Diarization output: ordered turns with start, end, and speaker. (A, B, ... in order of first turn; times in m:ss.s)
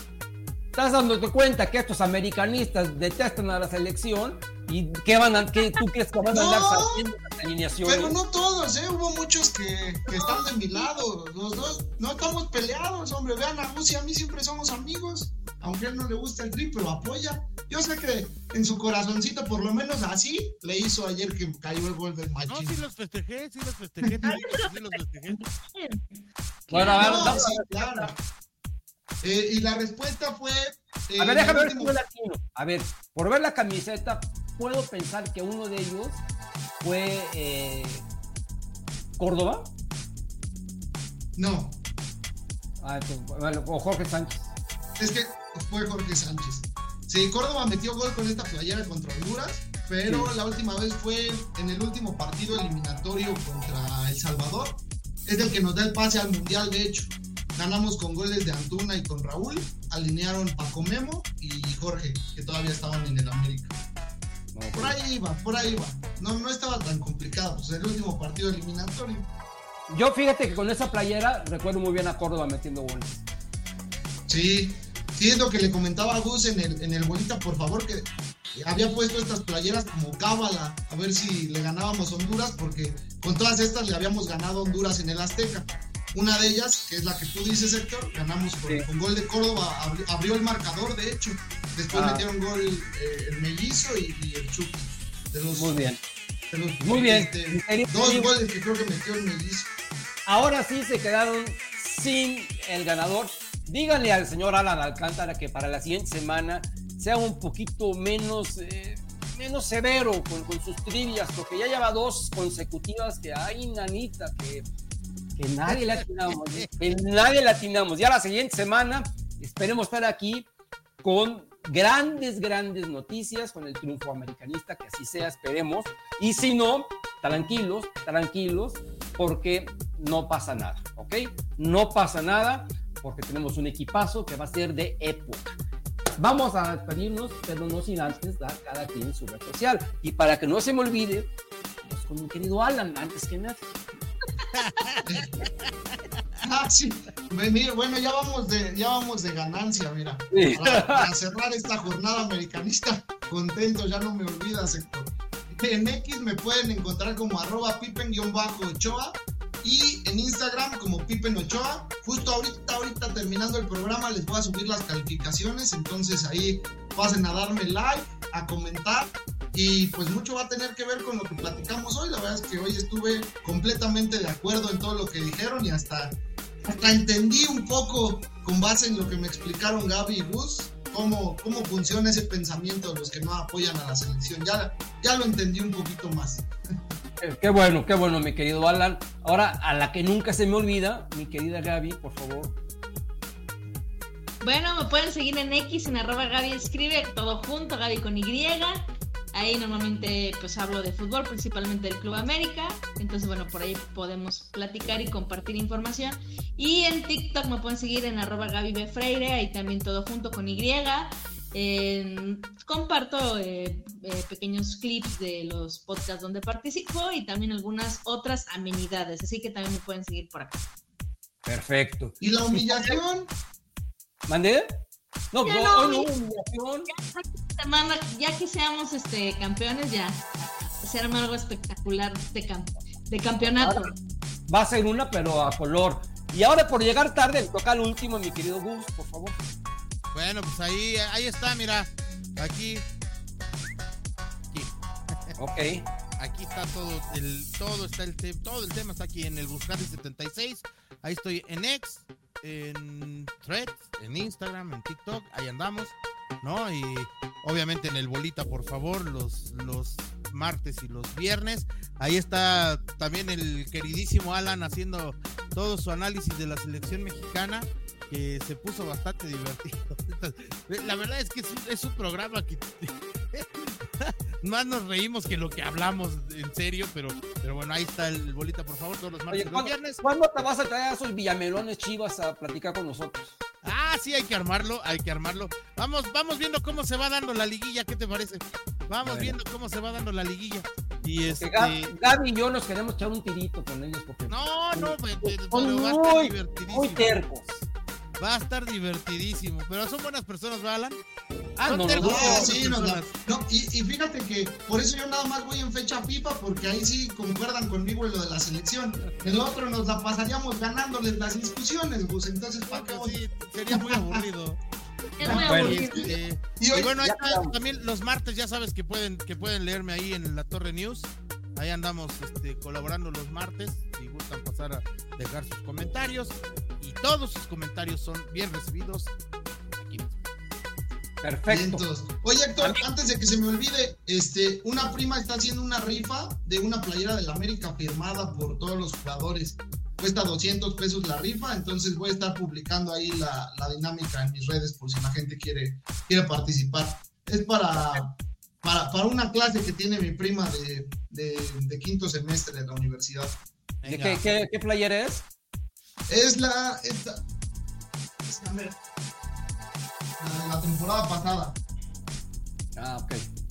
0:00.8-0:08.2 A
0:06.3-0:07.0 B
0:07.8-0:22.8 B
0:10.1-0:11.0 C
0:22.5-0:25.4 D
0:24.2-0:26.0 C
0:26.7-0:28.1 A
0:26.7-0:28.2 B
0:26.7-0:27.4 C
0:29.2-0:32.0 B
0:31.2-0:36.2 A
0:36.8-0:38.0 A
0:39.2-0:39.7 A
0:41.4-0:41.8 B
0:42.8-0:44.5 A
0:45.0-1:03.8 B
0:50.0-0:50.3 A
1:04.5-1:05.0 A
1:04.7-1:09.3 B
1:09.9-1:13.2 A
1:14.3-1:35.9 B
1:31.9-1:32.3 A
1:35.5-1:36.0 A
1:36.5-1:39.7 B
1:36.8-1:38.3 A
1:40.3-1:54.7 A
1:55.4-2:00.5 A
1:55.7-1:56.7 D
2:01.0-2:15.6 A
2:16.2-2:21.3 A
2:21.8-2:23.8 A
2:24.5-2:25.7 D
2:25.0-2:25.4 B
2:26.4-3:06.5 B
2:30.3-2:31.1 A
3:07.2-3:12.6 A
3:14.4-3:40.6 C
3:41.4-3:43.0 A
3:42.2-3:43.3 B
3:44.3-3:44.8 A
3:45.3-3:46.9 A
3:45.4-3:46.1 C
3:46.9-3:53.9 C
3:53.6-3:53.9 A
3:54.5-3:59.4 A
4:00.1-4:02.8 D
4:04.5-4:05.4 D
4:05.4-4:05.9 A
4:06.2-4:40.0 D
4:39.3-4:43.4 A
4:43.6-4:51.9 D
4:49.0-4:49.4 A
4:51.4-4:57.6 A
4:54.3-4:57.2 D
4:58.2-5:01.0 D
5:01.6-5:03.1 D
5:01.6-5:02.6 A
5:02.0-5:14.2 B
5:12.7-5:14.6 D
5:15.2-5:16.1 C
5:15.2-5:29.1 D
5:15.2-5:17.0 B
5:15.3-5:15.8 A
5:17.0-5:17.6 A
5:29.8-5:30.2 D
5:31.2-5:31.9 A
5:31.5-5:53.4 B
5:32.6-5:32.8 A
5:53.8-5:54.2 D
5:53.8-5:55.2 A
5:56.1-5:57.2 B
5:58.3-5:58.8 B
6:00.2-6:01.6 B
6:02.8-6:03.3 A